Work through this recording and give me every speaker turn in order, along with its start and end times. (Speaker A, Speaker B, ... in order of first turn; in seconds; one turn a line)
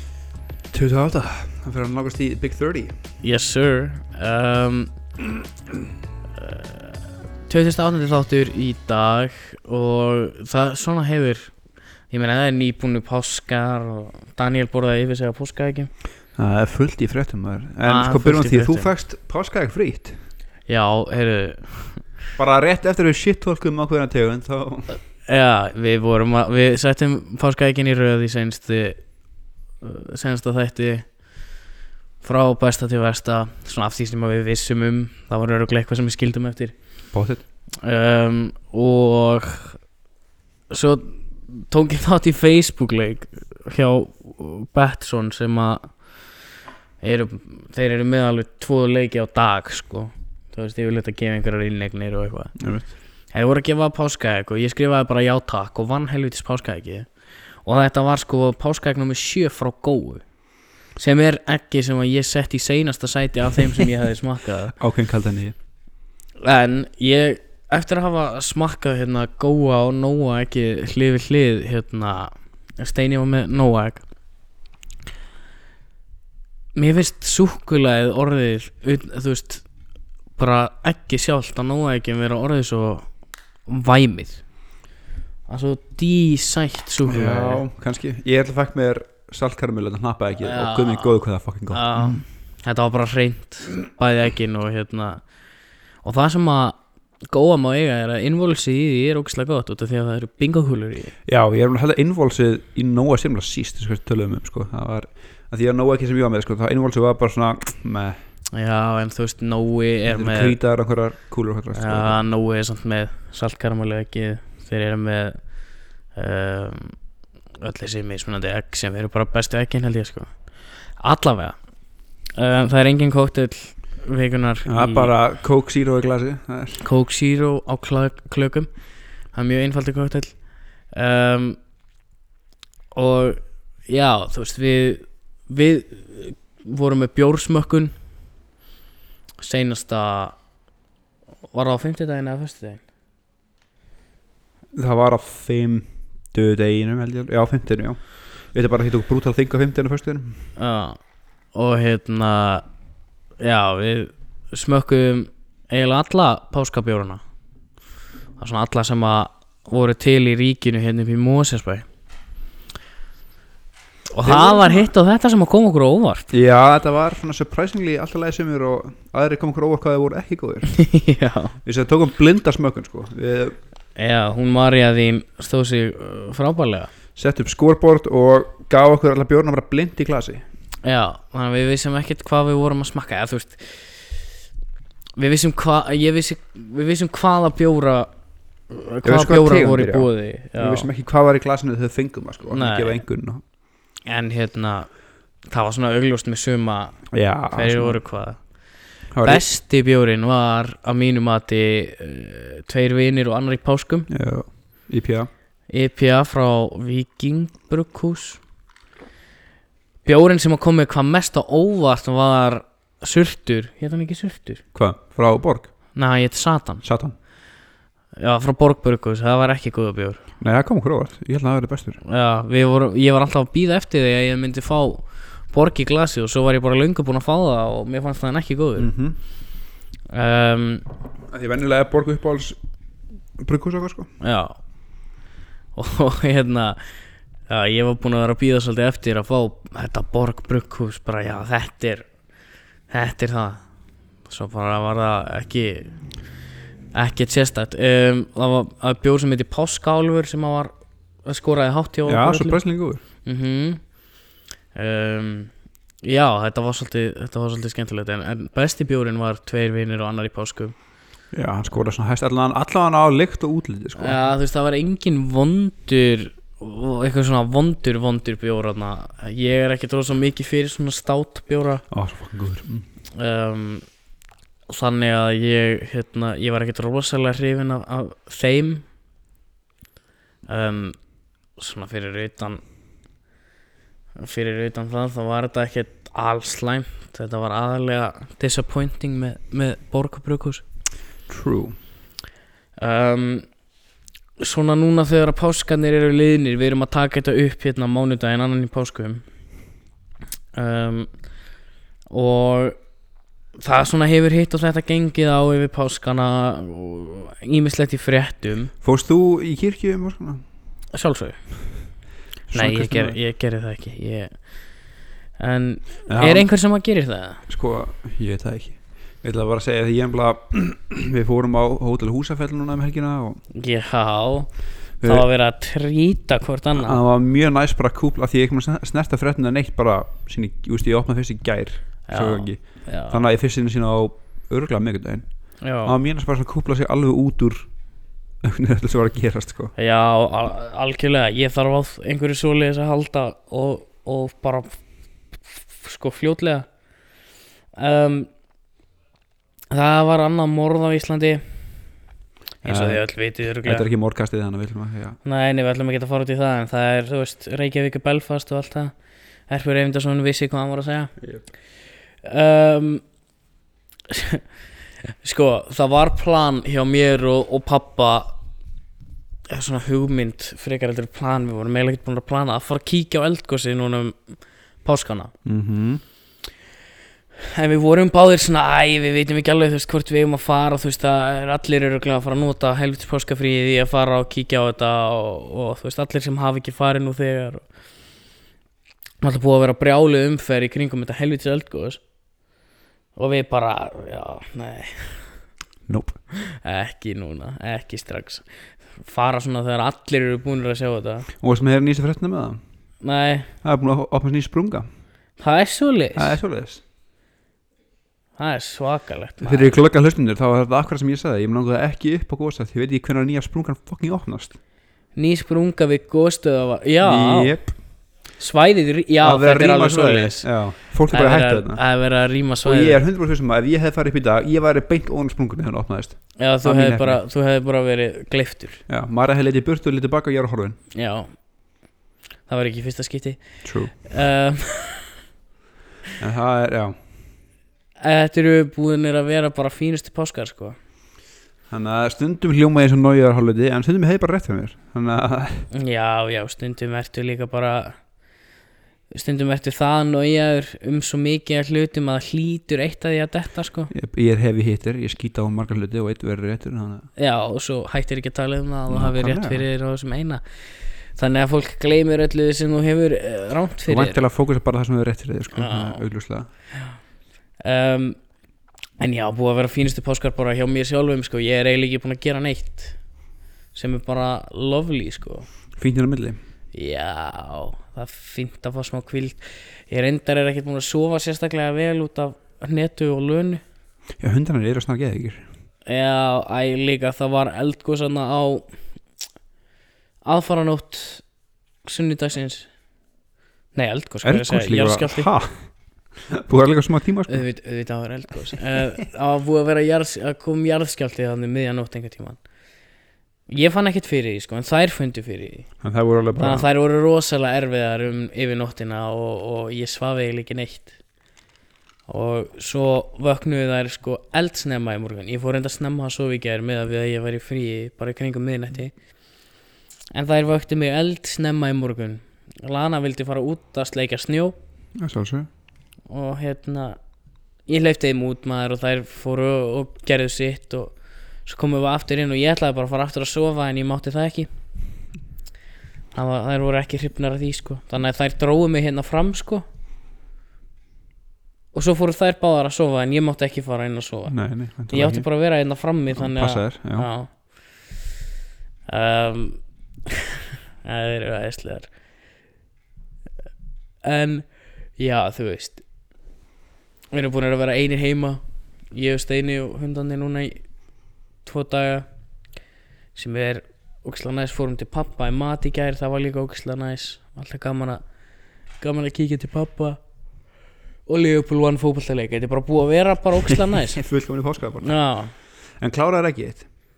Speaker A: 0.7-2.9
Speaker B: 3.2-4.9
Speaker B: 6.4-6.8
Speaker B: 7.5-11.5
Speaker B: 12.1-15.9
Speaker A: 16.4-20.1
Speaker B: 17.8-18.9
Speaker B: 20.7-22.0
Speaker A: 22.4-25.0
Speaker B: 25.2-29.0
Speaker B: 29.8-31.1
Speaker B: 32.2-36.7
Speaker A: 37.1-37.4
Speaker B: 37.8-39.8
Speaker B: 40.7-45.9
Speaker B: 47.0-52.5
Speaker A: 52.6-52.9
Speaker B: 53.3-57.1
Speaker B: 57.6-60.2
Speaker B: 61.0-64.8
Speaker A: 64.8-65.5
Speaker B: 66.4-74.0
Speaker B: 76.7-79.6
Speaker B: 80.4-83.1
Speaker B: 83.7-84.4
Speaker B: 85.5-87.6
Speaker A: 87.0-92.2
Speaker B: 90.4-95.2
Speaker B: 96.0-96.8
Speaker B: 97.3-101.1
Speaker A: 101.3-108.2
Speaker B: 108.5-110.6
Speaker A: 110.1-112.2
Speaker B: 111.7-115.4
Speaker B: 116.1-117.0
Speaker B: 117.6-120.3
Speaker B: 121.0-121.6
Speaker B: 122.3-125.1
Speaker A: 124.7-126.8
Speaker B: 126.8-128.7
Speaker B: 129.3-130.4
Speaker B: 130.9-131.6
Speaker B: 132.9-137.9
Speaker B: 139.4-140.4
Speaker B: 141.5-142.8
Speaker A: 144.7-148.0
Speaker A: 148.5-150.4
Speaker B: 150.6-151.0
Speaker B: 151.5-152.6
Speaker B: 153.4-157.2
Speaker B: 158.4-161.8
Speaker B: 164.1-166.3
Speaker A: 164.2-164.9
Speaker A: 166.3-170.7
Speaker B: 170.7-171.6
Speaker A: 171.6-173.6
Speaker B: 173.9-176.9
Speaker A: 177.2-180.4
Speaker B: 180.8-183.9
Speaker B: 185.2-188.1
Speaker B: 188.7-190.9
Speaker A: 189.0-193.4
Speaker B: 192.5-193.0
Speaker B: 194.1-194.9
Speaker B: 195.5-197.0
Speaker A: 197.1-198.0
Speaker B: 197.5-198.4
Speaker A: 199.1-199.4
Speaker B: 199.2-204.1
Speaker A: 204.1-205.3
Speaker B: 205.7-208.4
Speaker B: 210.0-214.6
Speaker A: 214.7-215.7
Speaker B: 215.9-216.8
Speaker A: 216.8-217.1
Speaker B: 218.2-220.2
Speaker A: 220.4-222.0
Speaker B: 222.0-228.9
Speaker A: 228.8-229.2
Speaker B: 230.1-230.8
Speaker A: 231.3-232.6
Speaker A: 233.4-234.1
Speaker B: 234.2-234.6
Speaker B: 235.8-236.8
Speaker B: 237.5-242.1
Speaker B: 242.9-243.6
Speaker B: 244.3-245.9
Speaker B: 246.9-250.7
Speaker B: 251.2-252.6
Speaker A: 252.1-253.0
Speaker B: 253.2-253.8
Speaker B: 254.7-255.5
Speaker B: 256.0-260.7
Speaker A: 261.3-264.2
Speaker B: 264.0-271.8
Speaker A: 271.9-272.9
Speaker B: 273.1-273.8
Speaker B: 274.7-278.8
Speaker B: 280.5-280.9
Speaker B: 281.6-282.6
Speaker B: 284.2-290.6
Speaker A: 291.3-291.8
Speaker B: 292.8-293.5
Speaker B: 294.4-299.2
Speaker B: 300.5-301.1
Speaker B: 302.1-302.8
Speaker B: 303.6-308.7
Speaker A: 308.8-310.4
Speaker B: 310.9-311.4
Speaker A: 312.5-313.2
Speaker B: 312.5-314.3
Speaker B: 315.4-317.4
Speaker A: 316.1-316.4
Speaker A: 317.5-323.4
Speaker B: 323.5-324.5
Speaker A: 325.0-325.2
Speaker B: 325.0-327.0
Speaker A: 326.7-335.2
Speaker B: 332.1-333.2
Speaker B: 335.6-335.9
Speaker A: 335.8-337.7
Speaker A: 338.4-339.7
Speaker B: 339.8-344.7
Speaker B: 345.8-346.7
Speaker B: 347.7-348.3
Speaker B: 349.7-351.4
Speaker B: 352.6-353.9
Speaker A: 352.6-353.0
Speaker A: 353.6-355.2
Speaker B: 355.2-358.9
Speaker B: 359.5-361.1
Speaker B: 362.2-363.0
Speaker B: 364.1-364.4
Speaker B: 365.1-368.4
Speaker B: 369.5-374.2
Speaker B: 374.8-375.3
Speaker A: 375.4-376.0
Speaker B: 377.5-387.6
Speaker B: 389.2-392.0
Speaker B: 393.2-395.3
Speaker A: 395.9-396.2
Speaker B: 396.3-398.4
Speaker B: 399.0-401.3
Speaker A: 401.4-402.6
Speaker B: 403.0-403.5
Speaker A: 403.6-404.9
Speaker B: 405.4-406.4
Speaker A: 406.1-406.8
Speaker B: 408.4-409.7
Speaker A: 409.4-414.6
Speaker B: 415.2-417.6
Speaker A: 417.0-417.7
Speaker B: 418.4-420.5
Speaker A: 419.2-421.8
Speaker B: 421.1-423.0
Speaker A: 422.6-427.2
Speaker B: 426.4-428.8
Speaker A: 428.9-430.8
Speaker B: 430.9-431.3
Speaker B: 432.5-433.4
Speaker A: 433.6-433.9
Speaker B: 434.0-435.1
Speaker A: 436.2-436.9
Speaker B: 438.0-440.8
Speaker A: 441.7-445.6
Speaker B: 445.7-447.9
Speaker B: 449.1-453.9
Speaker A: 453.9-457.1
Speaker B: 457.2-460.4
Speaker A: 458.9-459.6
Speaker B: 461.1-464.2
Speaker A: 463.9-466.5
Speaker B: 465.5-466.0
Speaker B: 467.6-468.2
Speaker B: 469.0-473.0
Speaker B: 473.7-475.5
Speaker A: 475.8-476.4
Speaker B: 476.7-479.4
Speaker B: 479.9-483.6
Speaker A: 484.2-485.4
Speaker B: 485.9-488.7
Speaker B: 490.2-491.2
Speaker B: 491.8-492.7
Speaker B: 493.7-495.3
Speaker A: 494.2-495.5
Speaker A: 496.3-497.4
Speaker B: 497.3-502.4
Speaker B: 503.5-505.7
Speaker A: 505.8-506.7
Speaker B: 506.4-510.9
Speaker B: 512.1-518.9
Speaker B: 520.1-524.5
Speaker A: 525.0-525.5
Speaker B: 526.1-527.0
Speaker B: 527.7-530.9
Speaker B: 531.5-534.5
Speaker B: 536.1-539.6
Speaker B: 541.7-544.3
Speaker A: 544.3-545.2
Speaker B: 544.9-547.3
Speaker A: 546.1-547.1
Speaker B: 548.9-551.9
Speaker B: 554.0-555.8
Speaker B: 557.1-560.6
Speaker B: 561.4-562.0
Speaker B: 563.1-568.0
Speaker B: 568.8-570.0
Speaker B: 571.1-574.0
Speaker A: 573.5-574.9
Speaker B: 574.8-575.3
Speaker A: 575.8-576.6